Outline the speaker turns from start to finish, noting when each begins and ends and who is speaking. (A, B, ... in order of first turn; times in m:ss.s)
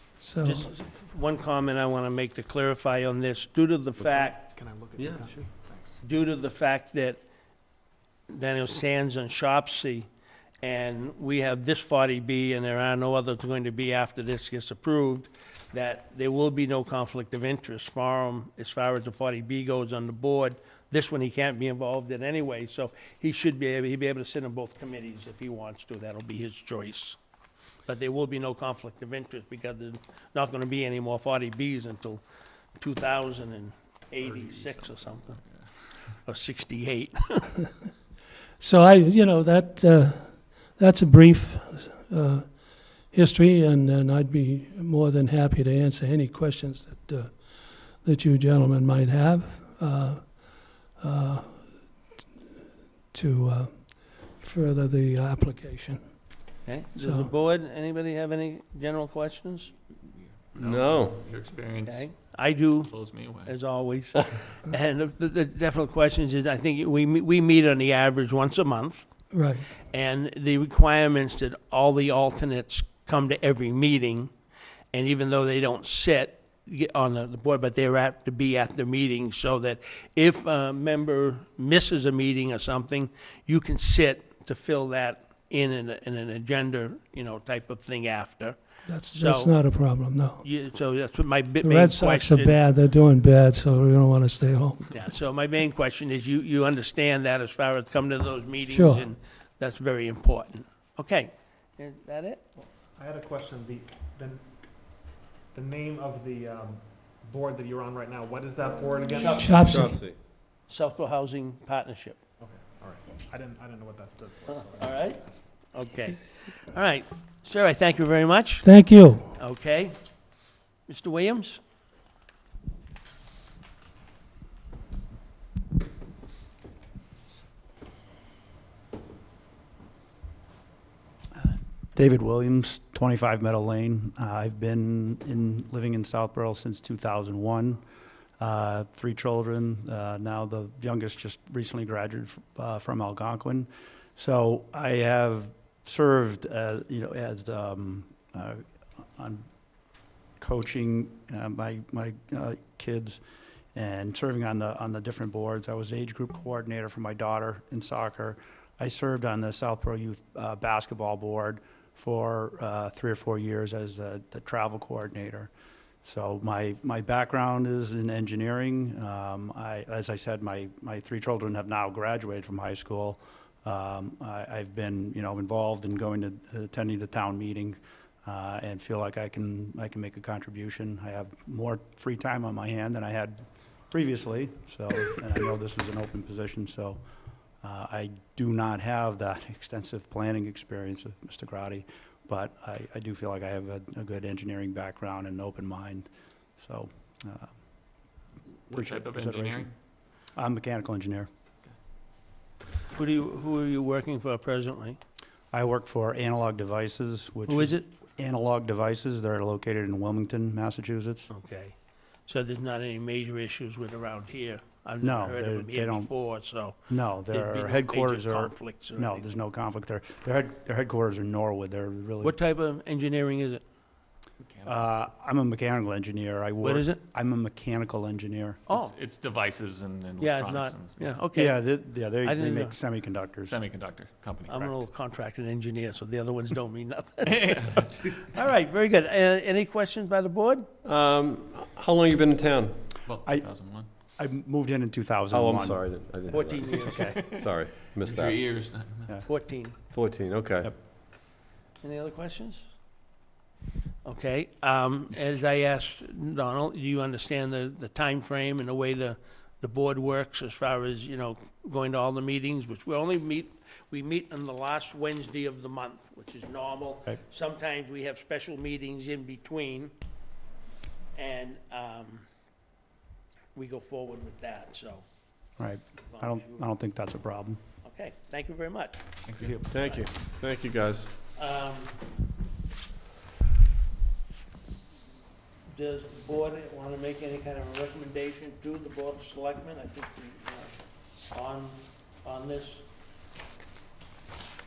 0:00.2-0:00.7 A
0:00.4-0:04.5 B
0:04.0-0:04.3 C
0:04.2-0:06.1 D
0:05.0-0:05.4 C
0:06.0-0:07.2 B
0:08.3-0:10.1 B
0:10.6-0:27.2 B
0:27.9-0:32.2 B
0:32.8-0:35.6 B
0:34.2-0:36.2 E
0:36.2-0:37.5 B
0:38.6-0:52.1 A
0:53.1-0:56.4 A
0:56.6-0:59.7 B
0:57.0-0:57.3 A
1:00.1-1:03.5 E
1:00.6-1:01.3 C
1:01.8-1:09.3 B
1:09.3-1:09.7 A
1:09.9-1:14.4 B
1:14.9-1:28.6 B
1:28.9-1:30.4 A
1:29.1-1:32.6 B
1:31.6-1:35.0 A
1:34.9-1:42.4 B
1:38.7-1:39.1 A
1:42.6-1:49.7 D
1:49.1-1:52.2 B
1:49.4-1:49.9 A
1:49.6-1:50.2 C
1:52.4-1:55.7 D
1:54.5-2:01.6 B
1:58.6-1:59.3 A
2:11.4-2:17.8 F
2:18.4-2:28.6 F
2:29.2-2:29.4 F
2:30.4-2:33.2 F
2:33.8-2:45.5 F
2:46.0-3:07.0 F
3:07.6-3:16.1 F
3:16.6-3:17.5 F
3:18.7-3:19.7 F
3:18.7-3:19.8 E
3:20.4-3:21.3 F
3:23.0-3:25.0 B
3:25.5-3:31.3 F
3:27.5-3:27.9 B
3:31.3-3:31.8 B
3:32.3-3:36.8 B
3:35.0-3:36.1 F
3:36.9-3:42.4 F
3:37.3-3:39.3 B
3:42.2-3:43.6 B
3:44.4-3:44.8 E
3:44.6-3:48.6 F
3:46.6-3:47.0 B
3:48.7-3:49.0 B
3:48.7-3:51.2 E
3:50.2-3:52.8 B
3:51.3-3:53.6 F
3:53.4-3:54.6 E
3:54.5-4:00.7 B
3:57.2-3:58.2 E
4:00.8-4:02.9 C
4:03.0-4:03.9 E
4:03.2-4:03.5 F
4:04.2-4:05.9 F
4:05.3-4:08.5 C
4:06.3-4:07.4 B
4:06.8-4:07.3 F
4:07.0-4:09.3 E
4:09.2-4:09.8 B
4:09.9-4:10.8 C
4:11.8-4:12.7 B
4:14.0-4:29.9 B
4:31.1-4:32.3 B
4:33.6-4:35.0 B
4:35.6-4:37.6 F
4:36.1-4:36.7 B
4:37.8-4:39.1 B
4:39.2-4:39.7 E
4:39.4-4:39.7 F
4:39.7-4:41.1 C
4:39.7-4:40.1 B
4:41.4-4:42.0 B
4:45.7-4:52.9 B